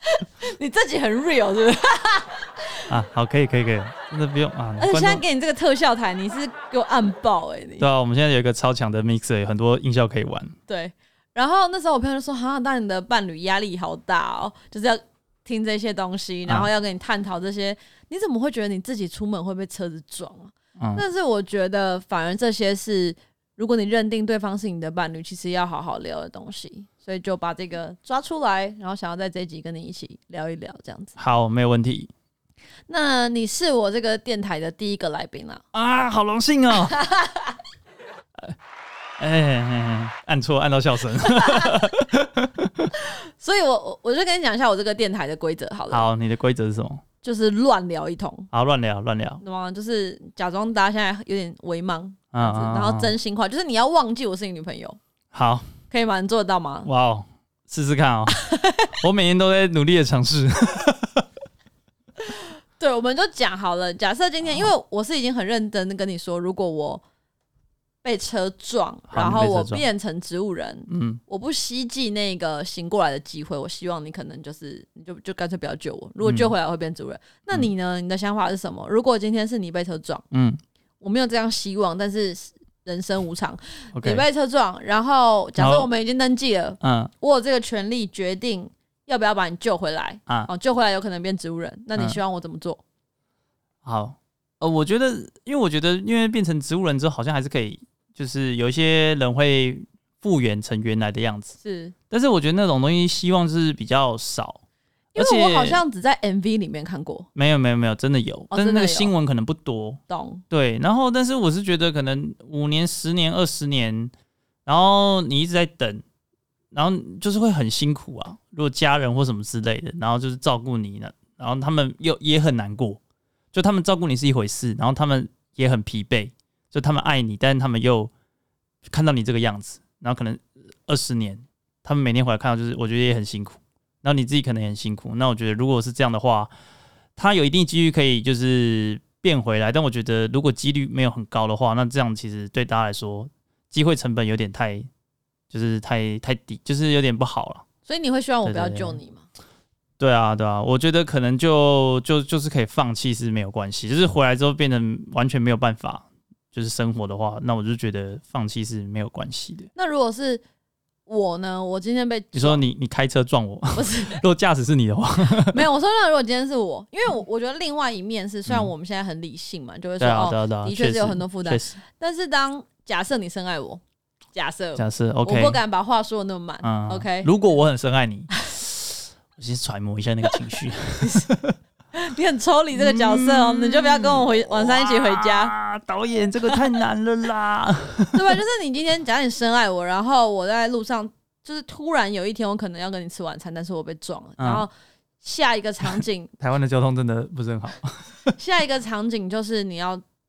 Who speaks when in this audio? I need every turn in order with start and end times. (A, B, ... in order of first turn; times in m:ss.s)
0:00.2-0:02.4 A
0:02.9-0:05.2 B
0:04.8-0:07.9 A
0:07.8-0:10.6 B
0:10.7-0:31.2 A
0:20.8-0:21.0 B
0:31.2-0:32.1 B
0:32.9-0:35.6 A
0:35.7-0:37.0 B
0:36.9-0:37.5 A
0:39.2-0:42.9 B
0:43.0-0:46.1 A
0:45.9-0:47.0 B
0:47.2-0:48.5 A
0:48.5-0:49.4 B
0:49.4-0:55.0 A
0:52.3-0:53.2 B
0:55.3-0:55.7 B
0:55.9-0:56.9 A
0:56.8-0:58.4 B
0:58.3-0:58.9 A
0:59.0-1:01.2 B
1:02.8-1:07.0 A
1:08.0-1:20.2 A
1:09.1-1:09.8 B
1:10.9-1:11.2 B
1:16.2-1:16.5 B
1:20.3-1:20.6 B
1:21.0-1:32.8 A
1:23.9-1:24.2 B
1:25.6-1:25.9 B
1:26.8-1:27.1 B
1:33.8-1:41.6 B
1:41.6-1:41.9 A
1:42.1-1:44.6 B
1:45.1-1:47.3 A
1:45.2-1:45.8 B
1:47.4-1:50.0 B
1:48.5-1:49.1 A
1:50.1-1:50.4 A
1:50.5-1:54.1 B
1:54.7-1:56.0 B
1:56.7-2:03.0 B
2:03.5-2:08.1 B
2:08.9-2:16.5 B
2:17.2-2:24.9 B
2:25.5-2:27.6 B
2:27.9-2:29.2 A
2:28.4-2:29.0 B
2:30.0-2:39.7 B
2:39.8-2:40.4 A
2:41.1-2:42.6 A
2:42.3-2:45.6 B
2:43.8-2:44.2 A
2:45.4-2:53.8 A
2:50.0-2:51.8 B
2:54.3-2:57.3 A
2:54.8-2:55.6 B
2:56.6-3:01.6 B
3:01.9-3:05.5 A
3:02.8-3:08.4 B
3:08.1-3:16.3 A
3:14.4-3:14.7 B
3:15.9-3:18.4 B
3:18.4-3:20.0 A